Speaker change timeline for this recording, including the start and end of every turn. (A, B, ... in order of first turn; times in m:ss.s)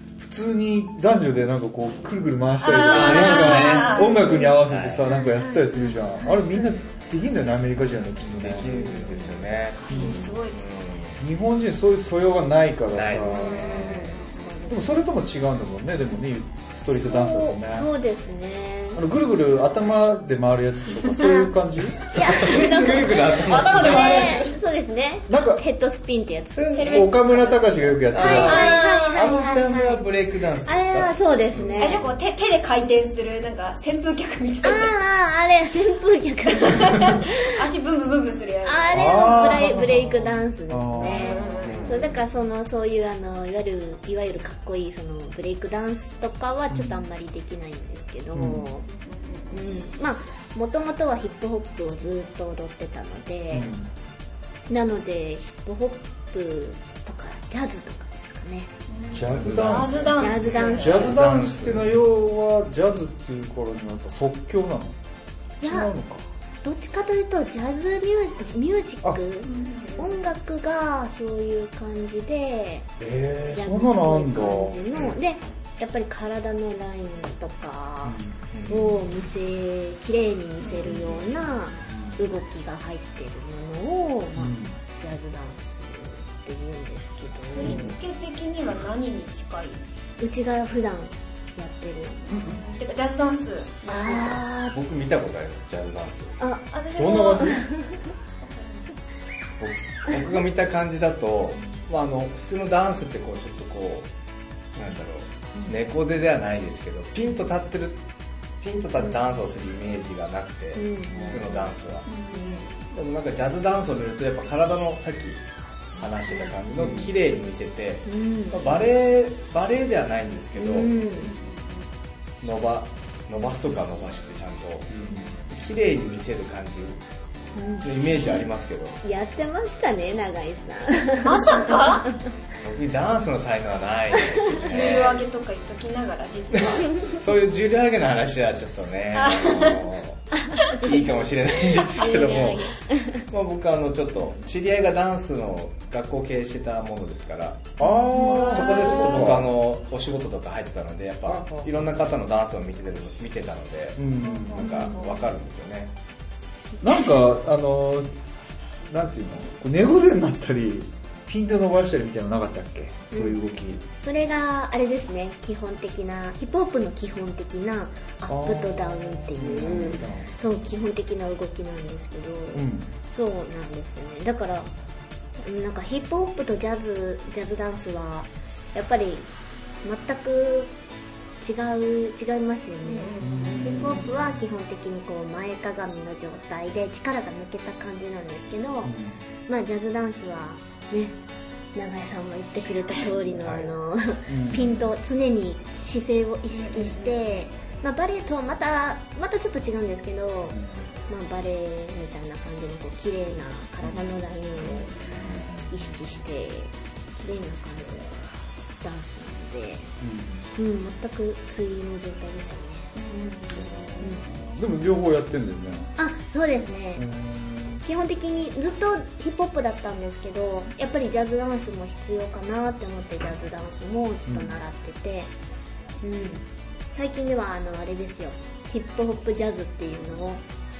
0:00.2-0:08.8 A
0:02.6-0:04.4 B
0:02.7-0:05.0 C
0:04.1-0:04.5 D
0:05.1-0:06.8 D
0:08.3-0:11.2 C
0:08.7-0:09.4 D
0:09.8-0:10.8 B
0:09.9-0:10.2 A
0:11.2-0:13.9 A
0:12.9-0:14.1 C
0:13.2-0:14.6 B
0:13.3-0:15.0 D
0:14.7-0:17.9 A
0:16.9-0:19.0 D
0:18.9-0:22.2 A
0:21.2-0:27.2 D
0:22.2-0:24.4 C
0:22.3-0:24.6 B
0:25.3-0:25.6 A
0:26.6-0:27.0 C
0:26.7-0:29.5 B
0:26.9-0:28.7 A
0:28.1-0:32.0 C
0:28.1-0:30.0 D
0:30.6-0:32.0 D
0:31.8-0:34.9 B
0:34.6-0:37.6 D
0:36.5-0:39.6 B
0:38.6-0:48.9 D
0:38.9-0:41.9 A
0:41.0-0:42.2 B
0:41.6-0:42.0 C
0:46.7-0:47.1 A
0:48.3-0:48.7 A
0:49.0-0:49.9 B
0:49.5-0:53.7 D
0:53.5-0:53.9 A
0:54.7-0:58.7 D
0:58.9-1:01.1 B
0:59.1-1:05.0 A
0:59.3-1:01.9 C
1:00.2-1:01.2 D
1:05.6-1:05.9 D
1:05.6-1:06.2 A
1:06.6-1:12.9 D
1:09.4-1:10.2 B
1:13.0-1:14.9 A
1:13.5-1:28.0 D
1:18.0-1:18.4 A
1:18.5-1:19.0 C
1:20.6-1:21.2 B
1:21.8-1:22.2 A
1:24.4-1:24.8 A
1:27.5-1:29.9 B
1:27.6-1:27.9 A
1:30.2-1:32.4 D
1:32.3-1:34.4 B
1:32.3-1:32.6 A
1:33.9-1:34.8 D
1:34.7-1:36.4 C
1:36.4-1:36.7 D
1:36.7-1:37.6 B
1:36.9-1:37.6 A
1:37.4-1:38.0 D
1:38.4-1:38.8 B
1:39.6-1:44.1 C
1:44.8-1:48.0 C
1:48.6-1:52.1 C
1:50.8-1:51.8 D
1:51.1-1:51.4 A
1:52.1-1:52.8 B
1:52.3-1:52.6 D
1:52.9-1:55.4 C
1:56.0-2:01.0 C
1:56.3-1:57.1 D
1:56.8-1:57.1 A
1:58.1-1:58.8 D
2:00.6-2:01.3 D
2:01.0-2:01.8 B
2:02.4-2:04.9 C
2:04.9-2:05.3 A
2:05.5-2:07.0 C
2:07.6-2:08.4 D
2:07.8-2:09.0 C
2:09.0-2:12.3 D
2:11.2-2:12.1 B
2:12.6-2:15.2 C
2:14.2-2:15.0 D
2:14.6-2:17.0 B
2:17.0-2:22.7 C
2:19.1-2:19.9 B
2:20.5-2:21.2 D
2:21.8-2:23.2 D
2:23.3-2:35.9 C
2:27.8-2:29.5 A
2:28.2-2:29.2 B
2:31.3-2:31.7 A
2:34.0-2:34.8 A
2:34.3-2:35.2 B
2:34.6-2:34.9 D
2:36.8-2:38.1 A
2:38.9-2:43.8 A
2:43.1-2:43.4 D
2:44.0-2:54.7 D
2:48.3-2:50.3 A
2:52.5-2:52.9 A
2:55.4-2:59.3 D
2:59.8-3:00.7 D
3:01.4-3:09.0 D
3:02.8-3:04.1 B
3:03.2-3:04.4 A
3:08.8-3:09.2 A
3:09.5-3:11.2 D
3:11.8-3:24.9 D
3:14.3-3:14.8 A
3:16.5-3:17.2 B
3:20.5-3:20.8 A
3:23.8-3:24.1 A
3:24.6-3:25.2 B
3:25.2-3:25.8 A
3:25.7-3:28.2 D
3:28.8-3:29.9 D
3:30.0-3:30.5 A
3:30.6-3:32.9 D
3:32.9-3:34.2 B
3:34.3-3:35.9 A
3:36.0-3:37.0 D
3:37.0-3:37.8 A
3:37.8-3:45.3 D
3:44.3-3:44.6 A
3:46.0-3:50.4 D